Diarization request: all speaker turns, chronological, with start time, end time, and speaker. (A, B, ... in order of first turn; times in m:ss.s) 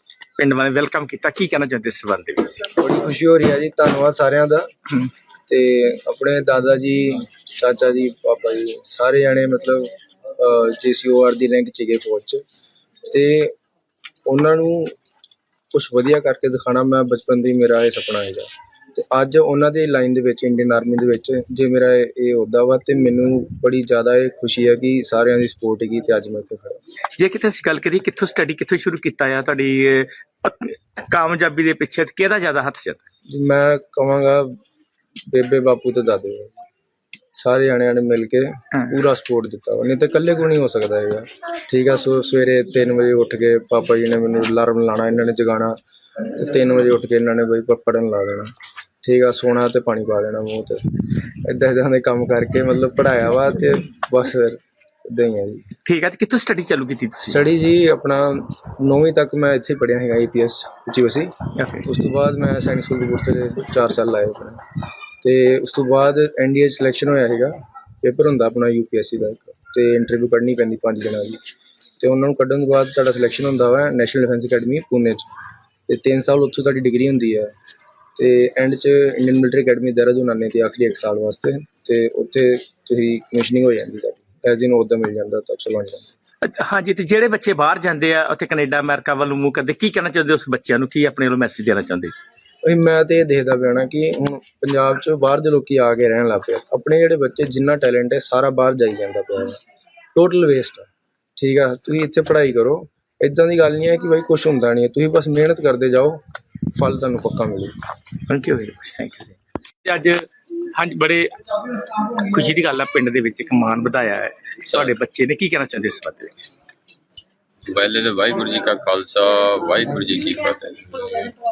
0:00.4-0:02.7 A
0:02.8-0:04.7 B
0:05.5-0:12.4 B
0:13.1-0:13.5 B
0:14.3-0:15.0 B
0:15.7-0:26.8 B
0:27.2-0:33.0 A
0:33.3-0:34.6 B
0:35.3-0:36.5 B
0:37.4-0:45.8 B
0:46.3-0:48.5 B
0:49.0-0:50.8 B
0:51.4-0:55.6 B
0:55.8-0:57.5 A
0:57.3-1:01.3 B
1:01.6-1:01.9 A
1:01.8-1:04.6 B
1:05.2-1:11.4 B
1:12.0-1:15.3 B
1:15.9-1:17.5 B
1:18.2-1:26.1 B
1:26.4-1:32.2 A
1:32.6-1:39.6 B
1:40.2-1:46.2 B
1:46.7-1:47.7 B
1:48.3-1:56.5 A
1:57.7-2:01.1 C